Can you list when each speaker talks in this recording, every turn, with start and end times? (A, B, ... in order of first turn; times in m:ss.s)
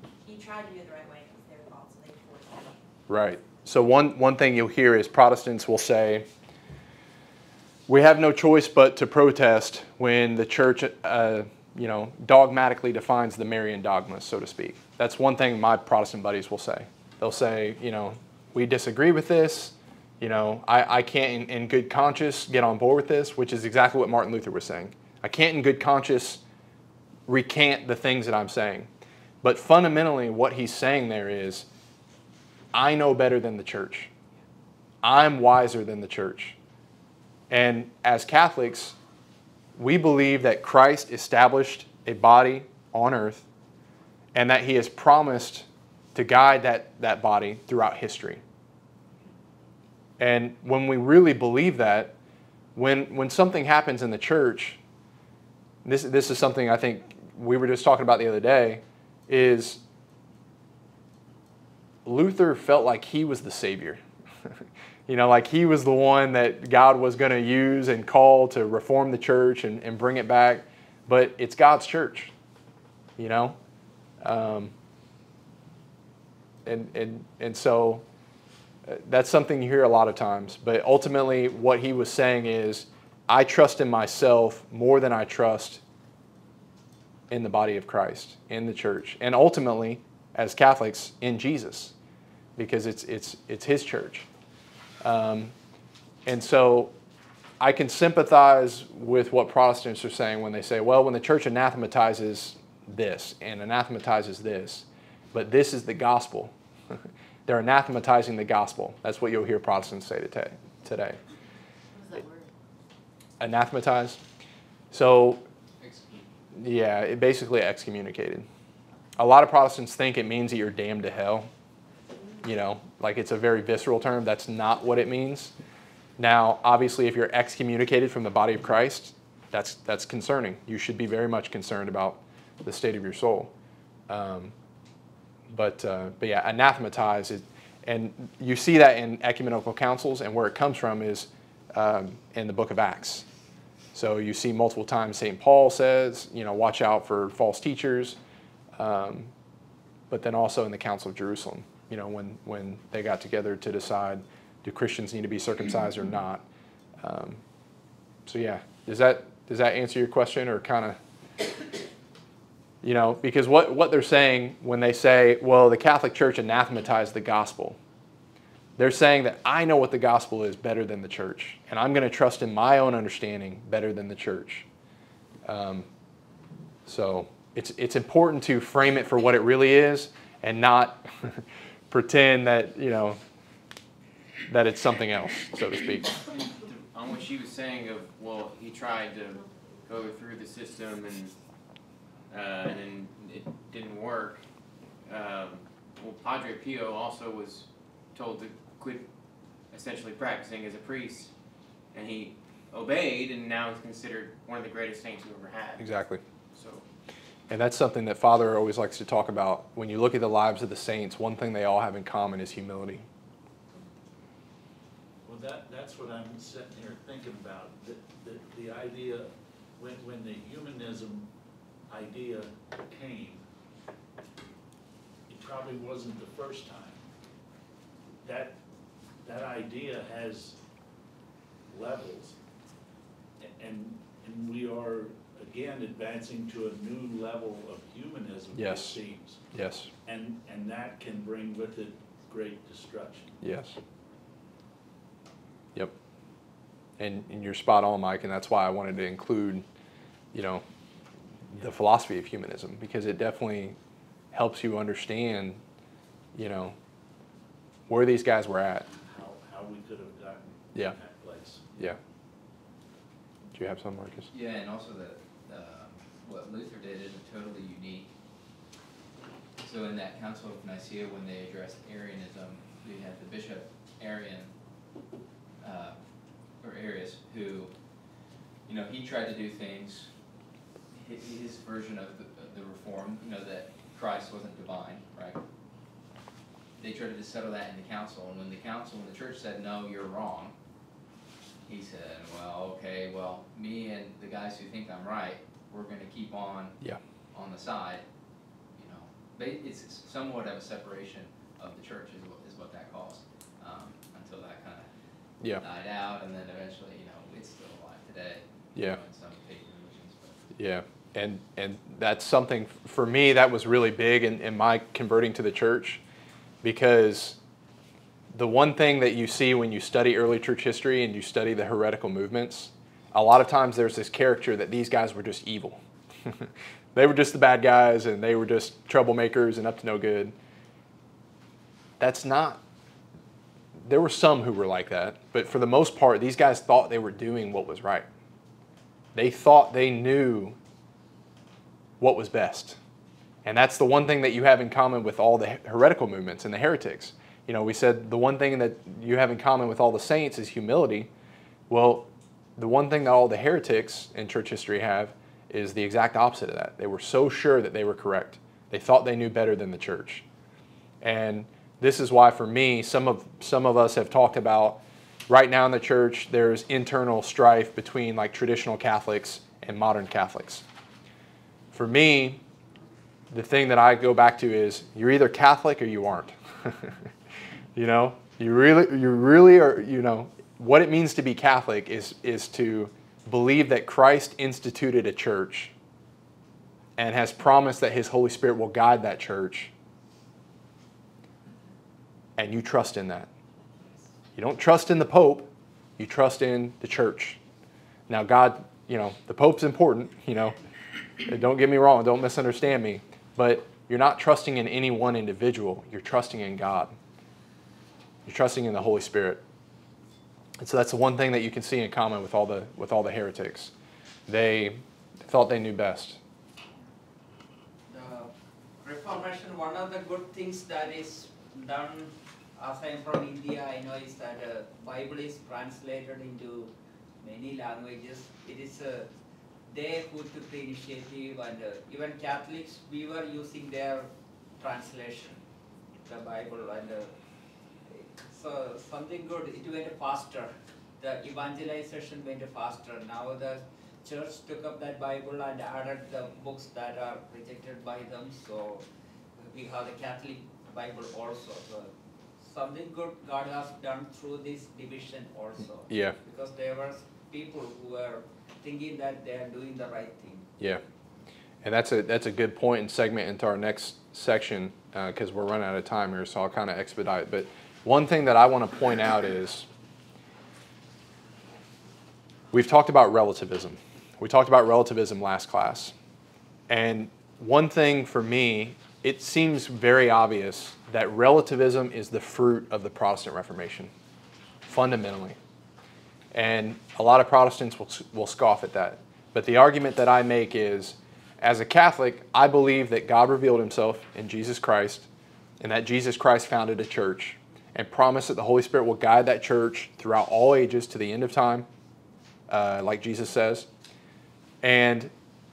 0:00.2-0:02.9 A
0:03.1-0:06.3 B
0:07.9-0:26.4 B
0:27.3-0:28.9 B
0:29.4-0:31.7 B
0:32.7-0:34.1 B
0:35.0-0:36.6 B
0:37.5-0:39.0 B
0:39.8-0:43.4 B
0:44.3-0:48.4 B
0:50.2-0:52.2 B
0:52.7-0:54.8 B
0:55.8-0:59.8 B
1:02.0-1:12.3 B
1:13.2-1:13.6 B
1:14.2-1:14.7 B
1:16.6-1:18.0 B
1:18.8-1:25.8 B
1:27.3-1:31.9 B
1:32.6-1:34.3 B
1:35.0-1:35.5 B
1:36.2-1:36.9 B
1:37.6-1:51.2 B
1:53.4-1:54.2 B
1:54.9-1:55.4 B
1:55.8-1:56.3 C
1:56.5-1:58.4 B
1:59.2-2:01.5 B
2:02.4-2:05.5 B
2:06.2-2:13.5 B
2:14.1-2:14.5 B
2:15.5-2:23.2 B
2:23.9-2:28.2 B
2:28.8-2:29.3 B
2:30.1-2:36.4 B
2:37.0-2:37.4 B
2:38.2-2:41.0 B
2:42.8-2:47.8 B
2:48.8-2:54.7 B
2:55.4-2:55.9 B
2:56.8-3:03.2 B
3:04.5-3:06.2 B
3:06.3-3:11.3 D
3:12.3-3:14.4 D
3:15.0-3:19.0 D
3:19.7-3:21.3 D
3:21.9-3:25.9 D
3:25.8-3:26.2 B
3:26.5-3:26.8 D
3:27.5-3:33.1 B
3:35.2-3:41.3 E
3:41.9-3:43.4 E
3:45.3-3:47.0 E
3:48.2-3:48.6 E
3:49.2-3:50.6 E
3:51.7-3:52.4 E
3:53.4-3:59.4 E
3:58.5-3:59.0 B
3:59.5-3:59.9 B
4:00.0-4:03.4 E
4:03.4-4:03.8 B
4:07.0-4:09.6 B
4:10.3-4:10.6 B
4:11.5-4:13.8 B
4:14.3-4:15.6 B
4:16.3-4:16.8 B
4:17.9-4:18.9 B
4:18.9-4:21.9 E
4:23.5-4:24.3 B
4:24.3-4:28.1 C
4:29.6-4:34.5 C
4:35.6-4:36.0 C
4:36.6-4:37.7 C
4:38.6-4:40.1 C
4:40.9-4:45.4 C
4:46.8-4:50.5 C
4:51.6-4:56.8 C
4:57.3-4:58.0 C
4:58.7-5:04.9 C
5:05.6-5:10.5 C
5:08.7-5:09.0 B
5:10.6-5:16.0 B
5:16.6-5:17.4 B
5:18.3-5:30.3 B
5:32.0-5:32.6 B
5:33.8-5:38.1 B
5:39.1-5:40.6 B
5:42.0-5:42.8 B
5:43.4-5:51.1 B
5:51.7-6:00.2 B
6:01.0-6:10.6 B
6:11.7-6:12.4 B
6:13.3-6:17.0 B
6:17.7-6:25.7 B
6:27.0-6:29.7 B
6:32.4-6:33.3 B
6:34.3-6:37.4 B
6:38.1-6:40.6 B
6:41.2-6:46.9 B
6:48.2-6:49.4 B
6:50.6-6:53.7 B
6:54.3-6:56.2 B
6:57.9-6:58.3 F
6:58.8-7:09.1 F
7:09.7-7:14.1 F
7:14.6-7:15.4 F
7:16.0-7:17.1 F
7:17.9-7:20.5 F
7:21.0-7:28.8 F
7:29.4-7:40.5 F
7:35.9-7:36.2 B
7:41.6-7:49.7 B
7:52.5-7:55.9 B
7:56.7-8:03.9 B
8:04.6-8:05.4 B
8:06.3-8:15.1 B
8:15.6-8:21.7 B
8:22.5-8:23.7 B
8:24.6-8:25.1 B